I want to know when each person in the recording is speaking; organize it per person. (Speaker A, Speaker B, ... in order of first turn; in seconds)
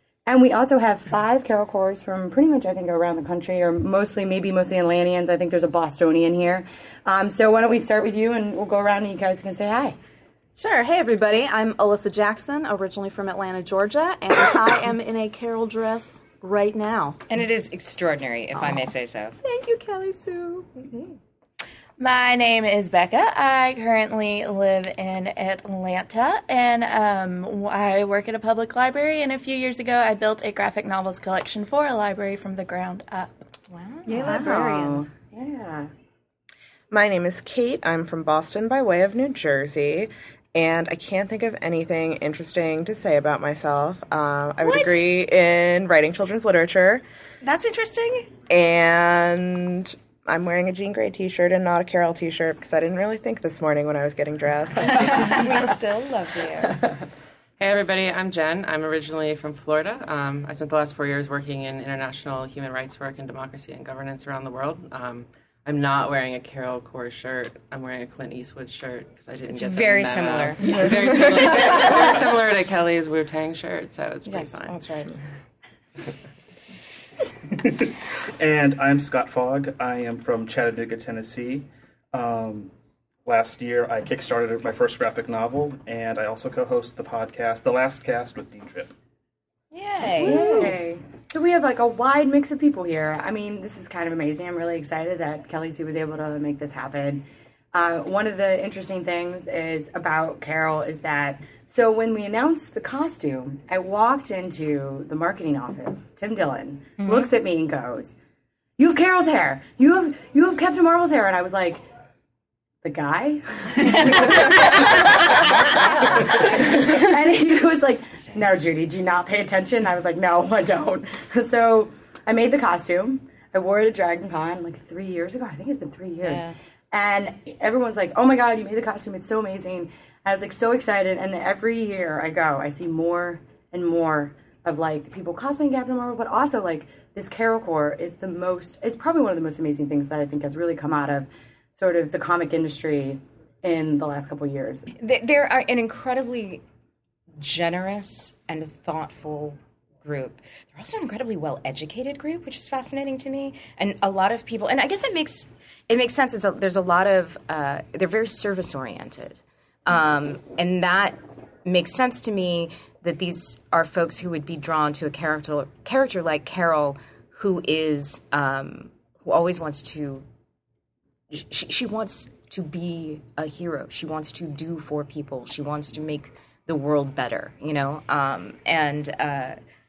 Speaker A: 0.3-9.9, 34.1-35.9, 90.0-108.1, 108.8-111.8, 112.8-144.9
Speaker B: 10.6-17.2, 19.8-20.7, 34.0-35.1
Speaker C: 17.3-19.4, 20.8-21.1, 33.7-34.1, 44.6-45.0, 47.4-48.3, 54.9-56.8, 69.5-72.1, 74.3-75.1, 89.7-90.7, 145.0-146.6, 147.4-170.2, 171.3-179.6
Speaker D: 19.4-20.5, 22.0-33.3
Speaker E: 36.9-47.0, 48.5-55.3
Speaker F: 57.6-74.8
Speaker G: 77.5-82.7, 83.2-88.9